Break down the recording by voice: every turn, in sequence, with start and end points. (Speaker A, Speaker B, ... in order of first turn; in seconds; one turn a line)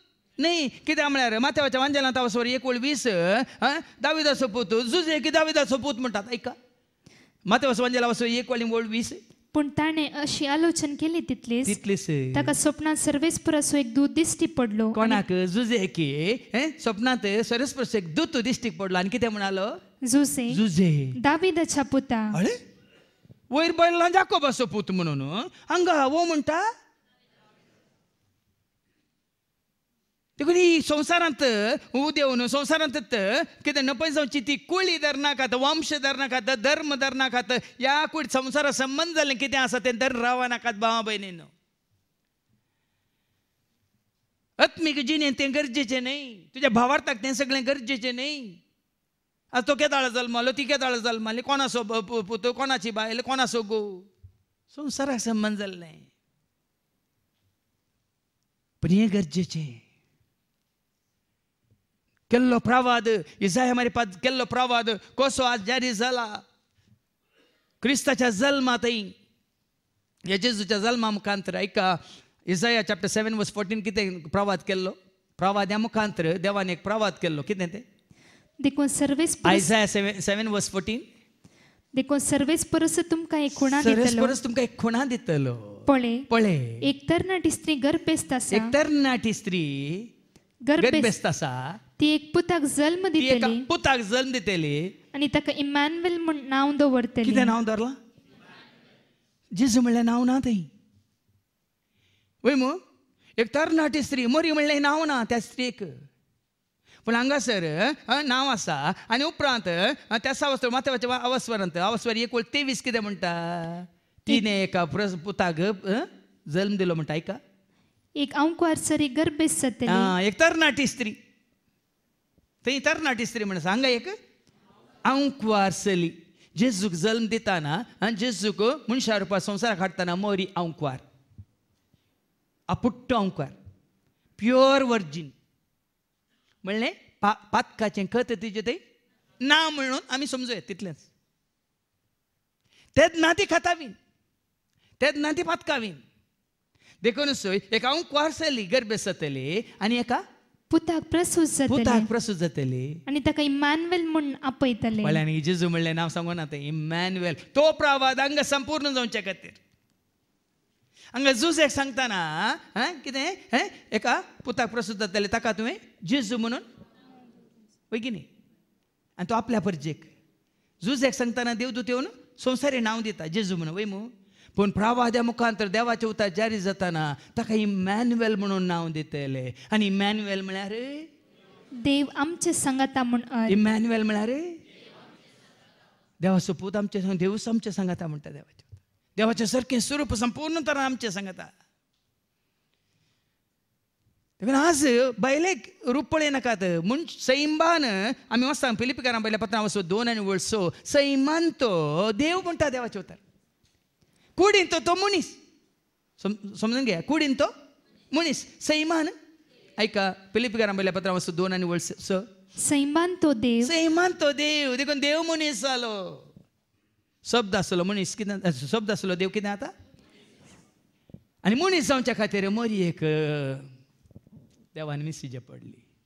Speaker A: 0.4-6.5
Speaker A: 7.5-9.2
Speaker B: 9.5-11.8
Speaker A: 11.6-12.5
Speaker B: 12.3-15.2
Speaker A: 14.9-19.7
Speaker B: 20.1-20.6
Speaker A: 20.5-21.2
Speaker B: 21.1-22.4
Speaker A: 23.5-26.6
Speaker A: 30.4-41.5
Speaker A: 44.6-48.6
Speaker A: 49.5-54.1
Speaker A: 54.7-56.0
Speaker A: 58.8-59.8
Speaker A: 62.3-66.4
Speaker A: 67.8-69.1
Speaker A: 70.3-77.8
Speaker B: 78.6-79.7
Speaker A: 79.4-81.0
Speaker B: 81.9-84.4
Speaker A: 83.5-86.8
Speaker B: 85.9-86.2
Speaker B: 86.8-88.8
Speaker A: 88.5-90.1
Speaker B: 90.7-91.1
Speaker A: 90.8-91.8
Speaker B: 92.0-93.7
Speaker A: 93.2-94.9
Speaker B: 95.1-97.6
Speaker A: 97.2-98.0
Speaker A: 99.5-100.7
Speaker A: 102.4-102.8
Speaker A: 103.4-105.9
Speaker A: 107.0-117.4
Speaker B: 118.2-120.1
Speaker A: 119.9-121.2
Speaker A: 122.6-124.1
Speaker A: 125.0-131.0
Speaker A: 132.7-133.5
Speaker A: 134.4-135.3
Speaker A: 136.6-138.8
Speaker A: 139.4-141.1
Speaker A: 142.9-143.9
Speaker A: 145.0-146.0
Speaker A: 147.0-150.2
Speaker B: 150.7-152.1
Speaker A: 151.7-153.0
Speaker B: 153.1-155.2
Speaker A: 155.0-159.6
Speaker A: 161.1-166.6
Speaker A: 167.9-168.3
Speaker A: 169.2-170.1
Speaker A: 170.8-181.0
Speaker B: 181.8-183.6
Speaker A: 183.5-184.5
Speaker A: 186.2-191.5
Speaker A: 194.4-203.2
Speaker A: 204.4-205.3
Speaker A: 206.2-207.5
Speaker A: 208.1-209.1
Speaker A: 209.8-212.2
Speaker B: 212.6-213.7
Speaker A: 213.6-216.2
Speaker A: 217.2-219.7
Speaker A: 221.4-223.7
Speaker A: 224.7-225.8